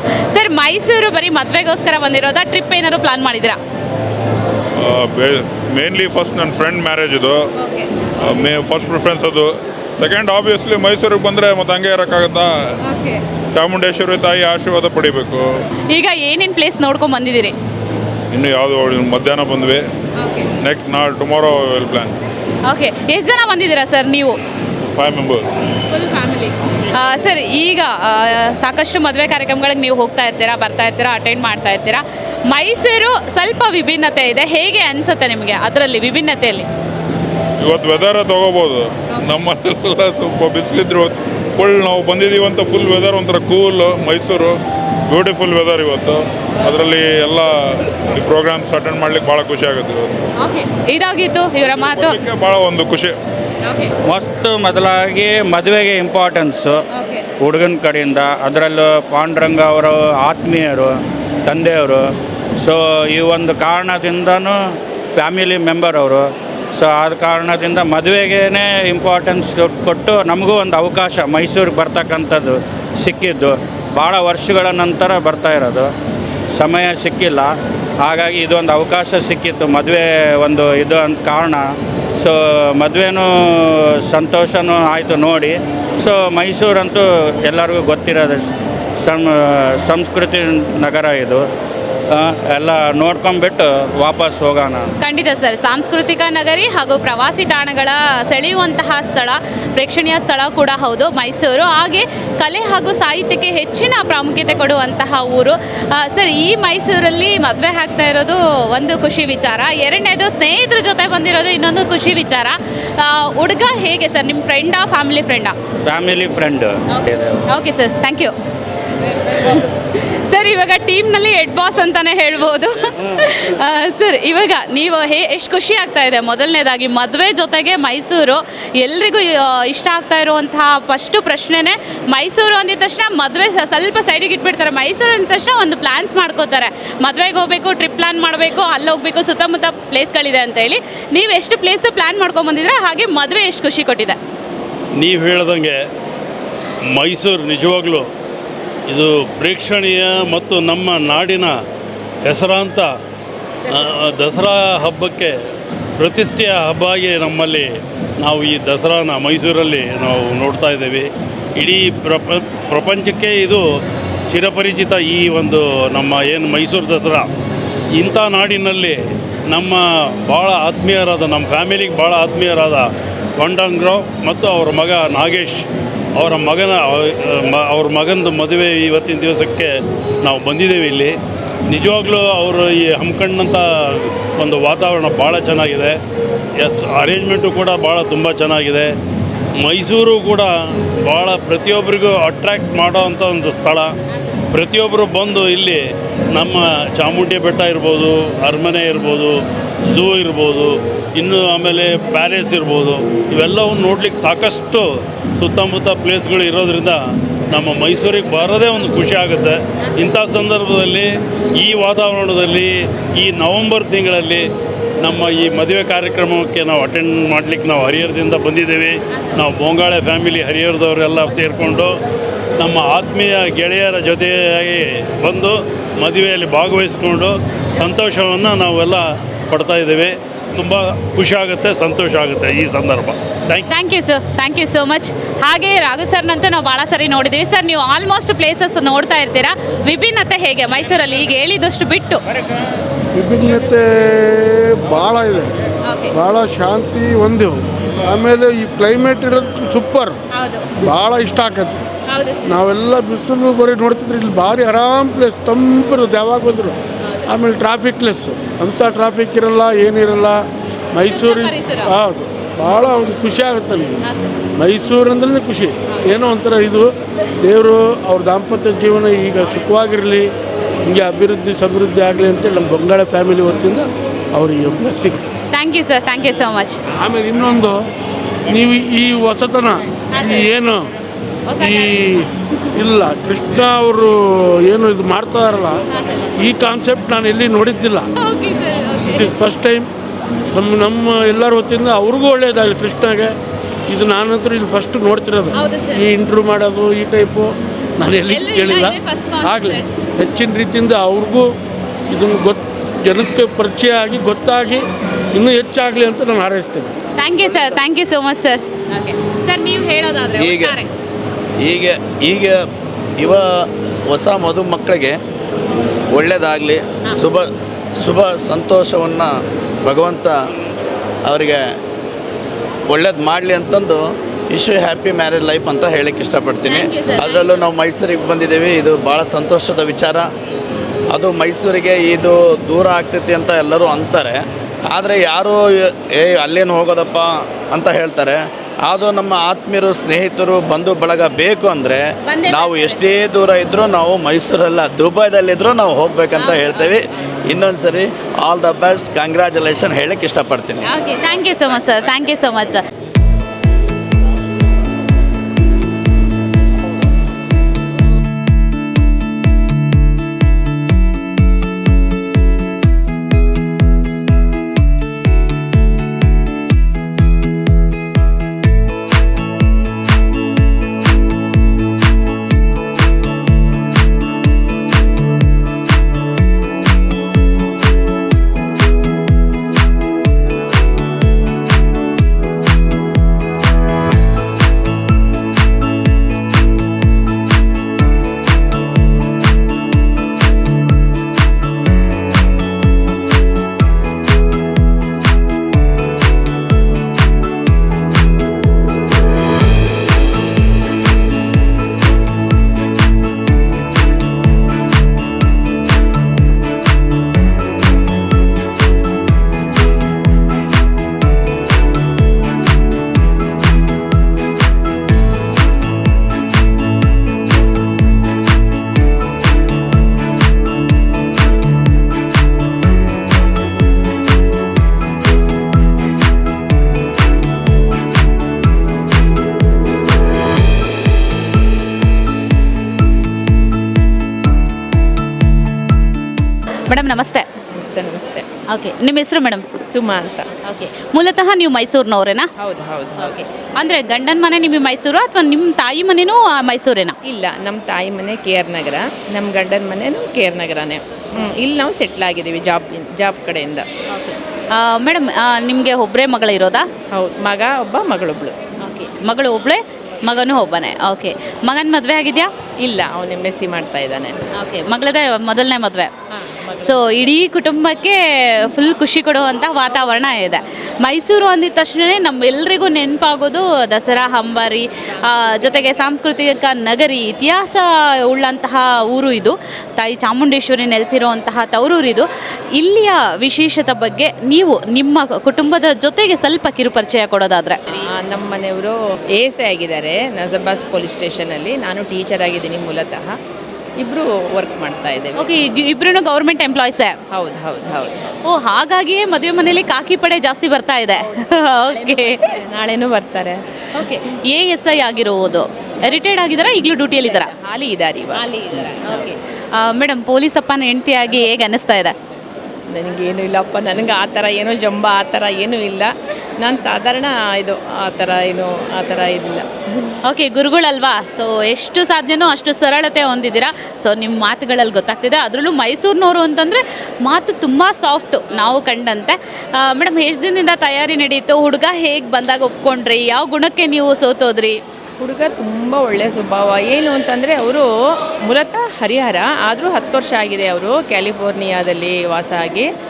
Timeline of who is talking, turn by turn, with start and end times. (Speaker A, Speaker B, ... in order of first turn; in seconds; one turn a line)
Speaker A: 0.3-3.6
Speaker B: 4.8-7.5
Speaker A: 7.6-7.9
Speaker B: 8.2-12.5
Speaker A: 12.8-13.2
Speaker B: 13.5-15.5
Speaker A: 15.9-17.5
Speaker B: 18.3-19.9
Speaker A: 20.2-20.5
Speaker B: 20.6-22.1
Speaker A: 22.6-24.4
Speaker B: 24.9-25.5
Speaker A: 25.9-36.7
Speaker B: 37.6-44.5
Speaker B: 45.1-50.2
Speaker A: 50.4-52.2
Speaker B: 51.8-53.2
Speaker C: 54.1-56.8
Speaker A: 56.9-57.2
Speaker C: 57.4-60.9
Speaker C: 61.4-64.5
Speaker C: 65.1-75.9
Speaker C: 76.5-81.7
Speaker C: 82.2-88.5
Speaker C: 89.0-91.4
Speaker C: 92.1-94.9
Speaker A: 95.0-115.5
Speaker C: 115.8-116.8
Speaker A: 116.9-118.3
Speaker A: 119.1-144.2
Speaker D: 145.0-145.8
Speaker D: 146.9-148.1
Speaker D: 148.9-151.5
Speaker D: 152.2-152.9
Speaker D: 153.7-155.3
Speaker D: 156.0-163.6
Speaker D: 164.3-167.3
Speaker D: 167.9-169.0
Speaker D: 169.5-181.2
Speaker D: 181.7-186.0
Speaker D: 186.6-188.9
Speaker D: 189.6-193.9
Speaker D: 194.5-199.3
Speaker D: 199.9-207.0
Speaker D: 207.5-214.4
Speaker D: 215.0-222.0
Speaker D: 222.6-233.7
Speaker A: 233.7-242.2
Speaker E: 243.1-245.5
Speaker A: 245.8-246.1
Speaker E: 246.1-250.2
Speaker A: 250.3-250.7
Speaker E: 250.8-251.8
Speaker A: 252.1-252.6
Speaker E: 252.4-260.4
Speaker E: 260.9-264.0
Speaker A: 261.0-261.9
Speaker A: 264.0-264.3
Speaker E: 264.6-266.9
Speaker E: 267.4-270.3
Speaker E: 270.8-275.3
Speaker A: 275.5-276.8
Speaker E: 276.9-277.8
Speaker E: 278.5-280.9
Speaker A: 280.1-280.4
Speaker A: 281.5-282.0
Speaker E: 281.6-285.8
Speaker E: 286.3-288.1
Speaker A: 288.2-289.3
Speaker E: 289.0-289.9
Speaker E: 290.5-293.4
Speaker E: 293.9-301.5
Speaker A: 295.5-296.1
Speaker A: 298.3-299.9
Speaker E: 302.1-306.9
Speaker A: 307.2-310.9
Speaker F: 310.4-310.7
Speaker F: 311.6-312.6
Speaker F: 313.2-315.2
Speaker F: 316.1-319.3
Speaker F: 319.8-320.4
Speaker F: 321.3-321.6
Speaker F: 322.9-330.2
Speaker A: 326.6-327.7
Speaker F: 331.1-350.8
Speaker A: 342.2-343.1
Speaker A: 346.3-346.9
Speaker A: 350.8-352.8
Speaker A: 436.9-437.5
Speaker G: 437.7-438.4
Speaker A: 438.7-439.6
Speaker G: 439.9-440.5
Speaker A: 440.6-442.5
Speaker G: 442.6-443.3
Speaker A: 443.2-447.1
Speaker G: 447.3-453.9
Speaker A: 454.1-456.9
Speaker G: 457.1-458.6
Speaker A: 458.8-462.5
Speaker G: 462.8-464.4
Speaker A: 464.5-466.1
Speaker G: 466.4-466.9
Speaker A: 466.8-487.8
Speaker G: 487.9-493.3
Speaker G: 494.0-495.5
Speaker A: 495.4-497.1
Speaker G: 497.3-498.2
Speaker A: 498.4-502.6
Speaker G: 502.6-503.6
Speaker A: 503.9-507.5
Speaker G: 507.2-508.4
Speaker A: 508.4-512.1
Speaker G: 512.9-516.1
Speaker G: 516.6-519.7
Speaker A: 520.2-534.8
Speaker G: 535.2-537.9
Speaker G: 538.5-542.9